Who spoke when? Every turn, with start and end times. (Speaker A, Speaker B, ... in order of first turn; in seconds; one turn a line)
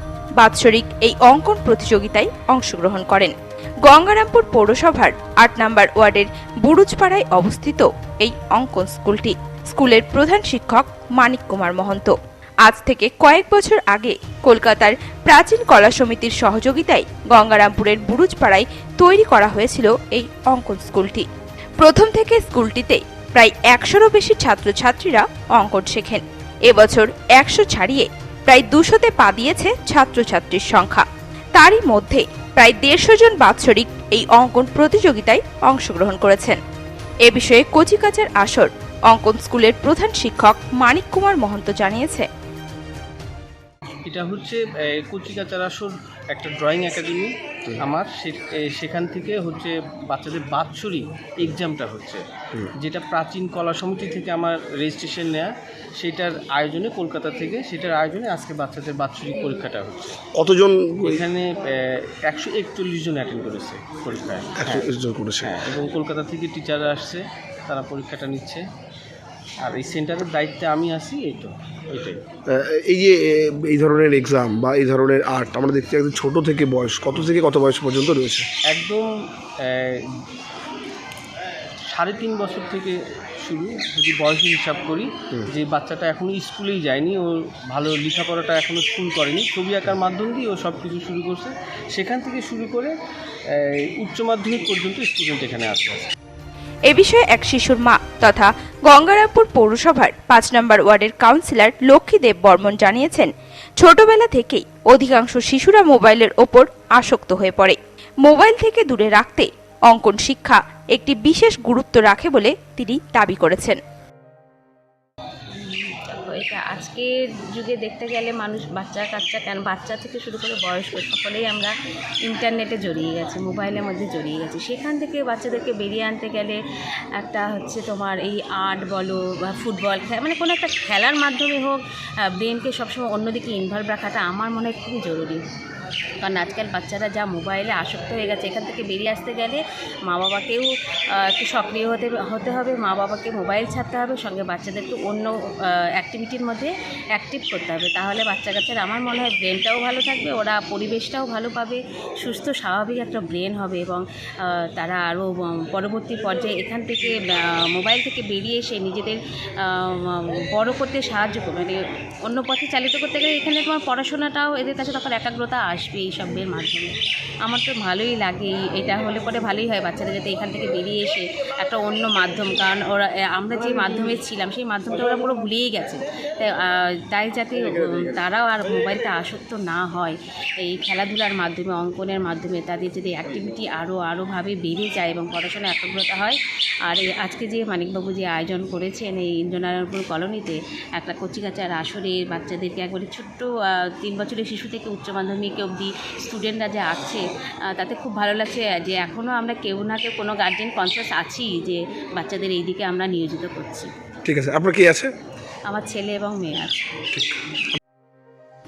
Speaker A: 0.4-21.3
Speaker A: 21.8-36.6
Speaker A: 37.2-42.3
Speaker B: 44.1-52.2
Speaker B: 52.7-60.2
Speaker C: 60.3-61.2
Speaker B: 61.0-64.9
Speaker C: 64.6-65.6
Speaker B: 65.4-68.7
Speaker B: 69.6-72.2
Speaker C: 72.5-78.5
Speaker B: 78.7-80.2
Speaker B: 81.9-92.9
Speaker B: 93.5-96.1
Speaker A: 96.9-113.8
Speaker D: 115.5-121.7
Speaker D: 122.2-126.6
Speaker D: 127.2-135.4
Speaker D: 136.2-203.9
Speaker C: 204.2-205.1
Speaker D: 205.7-207.1